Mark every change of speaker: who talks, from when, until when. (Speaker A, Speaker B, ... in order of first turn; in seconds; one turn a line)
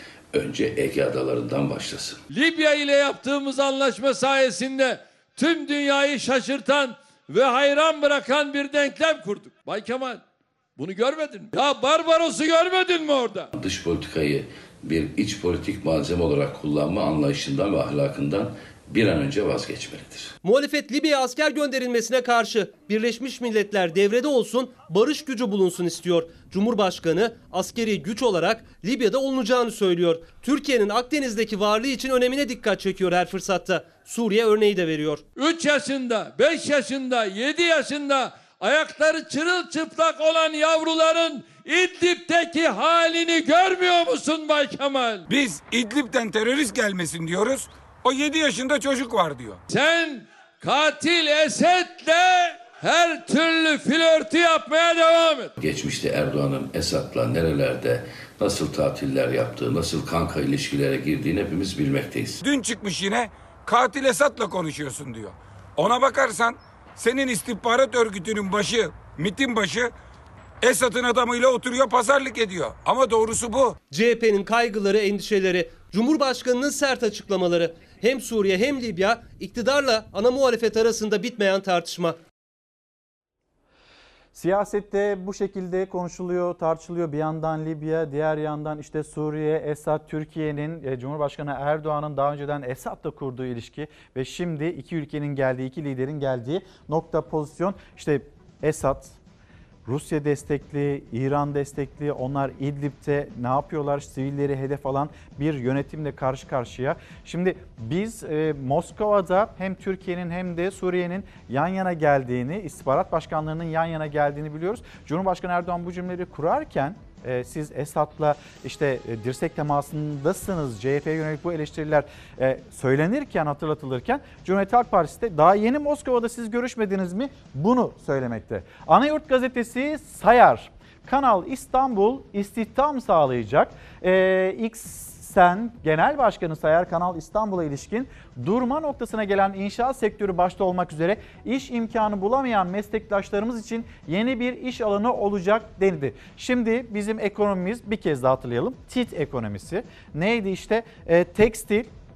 Speaker A: 0.3-2.2
Speaker B: 2.3-10.2
Speaker B: 10.8-13.5
Speaker A: 13.5-20.3
Speaker C: 20.4-35.2
Speaker B: 35.4-45.3
Speaker D: 45.3-49.6
Speaker B: 49.7-55.5
Speaker A: 55.6-62.4
Speaker D: 62.4-69.9
Speaker D: 70.6-73.8
Speaker C: 73.9-82.2
Speaker E: 84.3-99.2
Speaker E: 99.8-151.9